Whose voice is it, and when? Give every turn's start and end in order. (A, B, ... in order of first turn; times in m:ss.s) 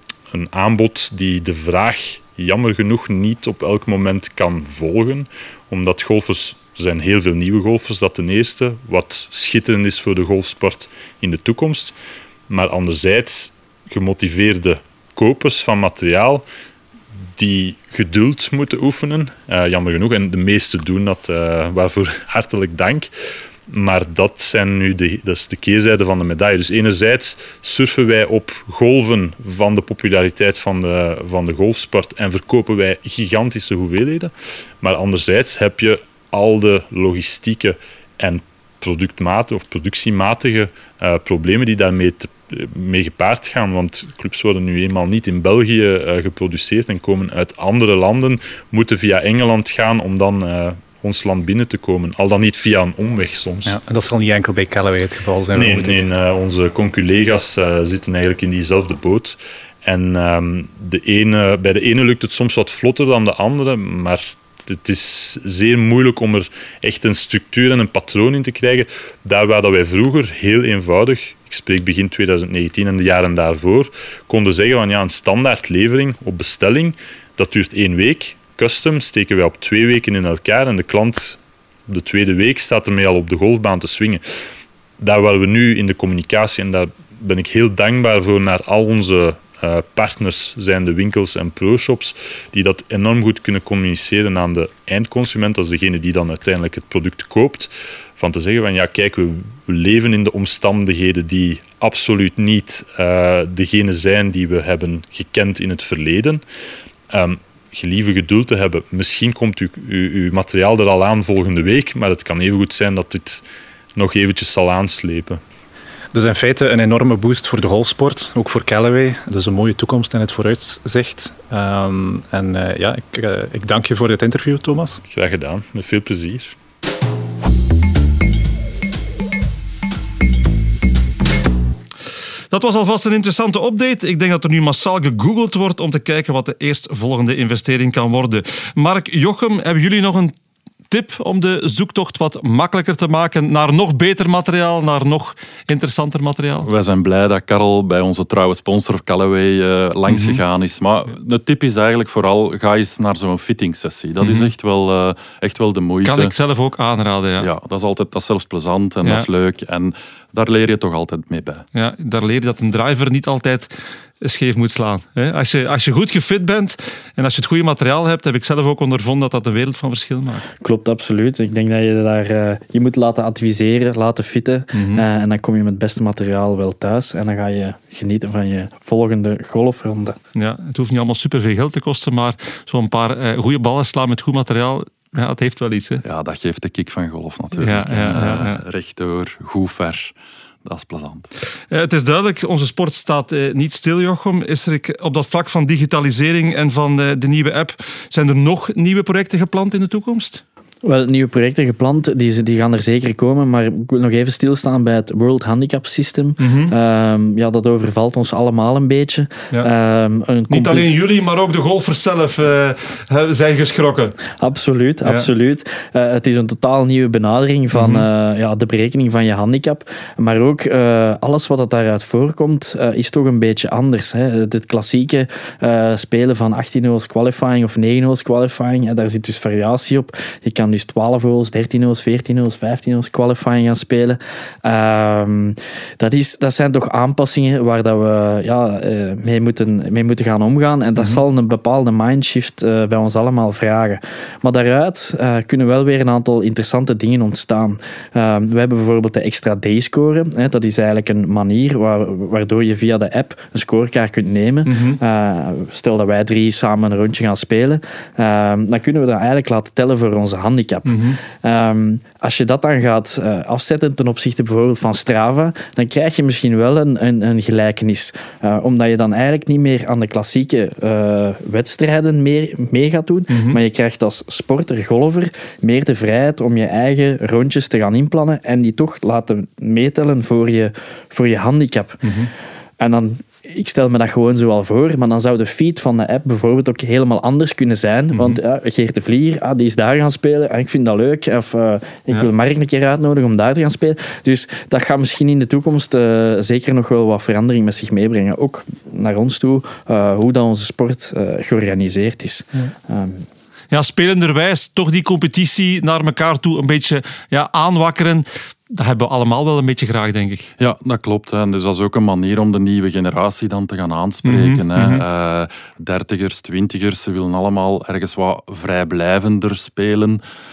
0:00.3-0:11.9 A
0:12.5-0:16.4 A
0:17.4-0:23.1 A
0:23.7-0:53.8 A
0:53.6-0:56.0 B
0:55.5-1:24.2 A
1:25.0-1:46.4 A
1:47.1-1:53.4 A
1:54.0-1:55.4 A
1:56.1-2:05.0 B
2:05.1-2:06.5 A
2:12.5-2:20.3 C
2:20.9-2:26.7 C
2:26.6-2:36.3 D
2:30.1-2:30.4 C
2:34.2-2:34.5 C
2:36.0-2:37.5 C
2:37.4-2:41.6 D
2:41.7-2:50.5 C
2:50.6-3:00.2 E
2:54.7-2:55.0 C
3:00.3-3:06.0 C
3:06.0-3:10.1 D
3:07.6-3:08.6 C
3:10.6-3:11.3 D
3:11.7-3:20.4 C
3:20.8-3:30.9 E
3:26.4-3:26.7 C
3:30.5-3:34.2 C
3:34.4-4:42.0 E
3:37.7-3:38.1 C
4:01.0-4:01.2 C
4:14.6-4:15.0 C
4:20.8-4:21.2 C
4:33.3-4:33.6 C
4:42.0-4:42.3 C
4:42.8-5:03.2 E
4:48.1-4:48.4 C
5:03.7-5:10.5 C
5:10.6-5:20.2 D
5:14.2-5:15.0 C